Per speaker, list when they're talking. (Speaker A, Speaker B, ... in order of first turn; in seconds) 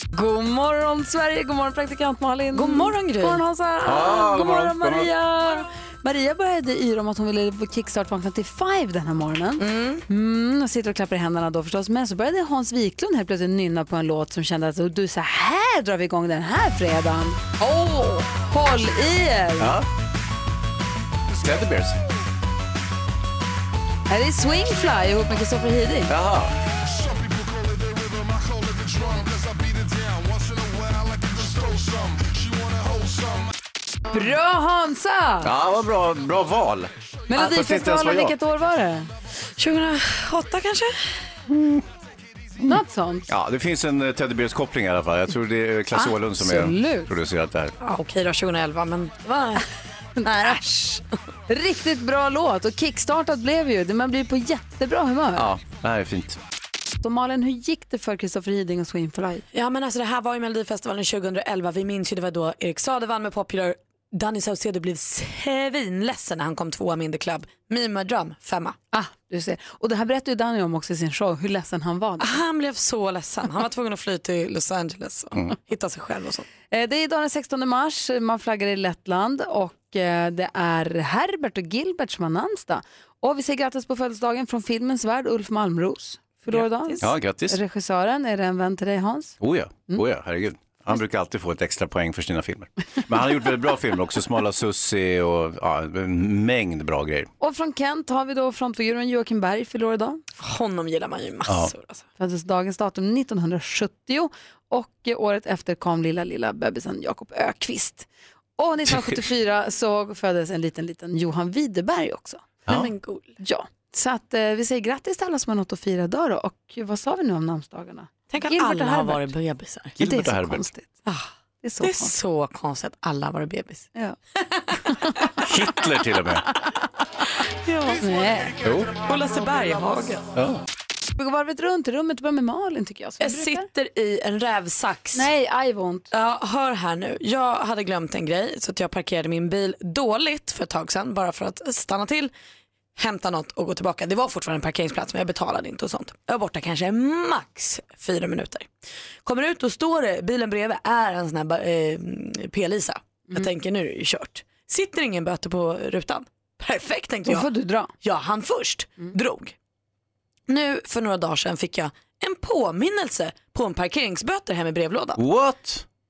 Speaker A: 0.1-19.8, 24.1-26.1, 34.1-35.5, 37.3-39.1, 42.6-43.3, 45.9-47.1, 50.2-55.5, 57.0-59.5, 68.9-72.3, 76.7-89.4, 97.4-100.2, 102.2-112.5, 113.4-119.3, 120.0-120.9, 121.6-122.2, 124.9-125.2, 128.0-128.6, 131.2-133.7, 135.1-136.1, 157.3-157.9
Speaker B: 2.5-3.4, 9.6-10.0, 39.6-41.2, 47.8-49.6, 59.5-68.8, 72.2-76.5, 86.5-87.0, 100.4-102.0, 112.7-113.3, 118.3-120.0, 121.0-121.3, 121.8-123.9, 127.6-128.1, 129.0-130.3, 133.2-135.3, 136.1-142.3, 143.0-148.7, 149.2-157.5, 158.0-159.6, 160.5-165.2
Speaker C: 3.9-5.1, 19.6-19.9, 21.4-22.0, 26.1-26.5, 35.4-38.4, 41.5-41.8, 43.3-47.7, 55.4-56.4, 87.0-87.6, 89.4-97.3, 101.5-101.7, 120.0-120.7, 125.5-126.5, 128.6-129.0, 130.3-130.6, 165.2-165.8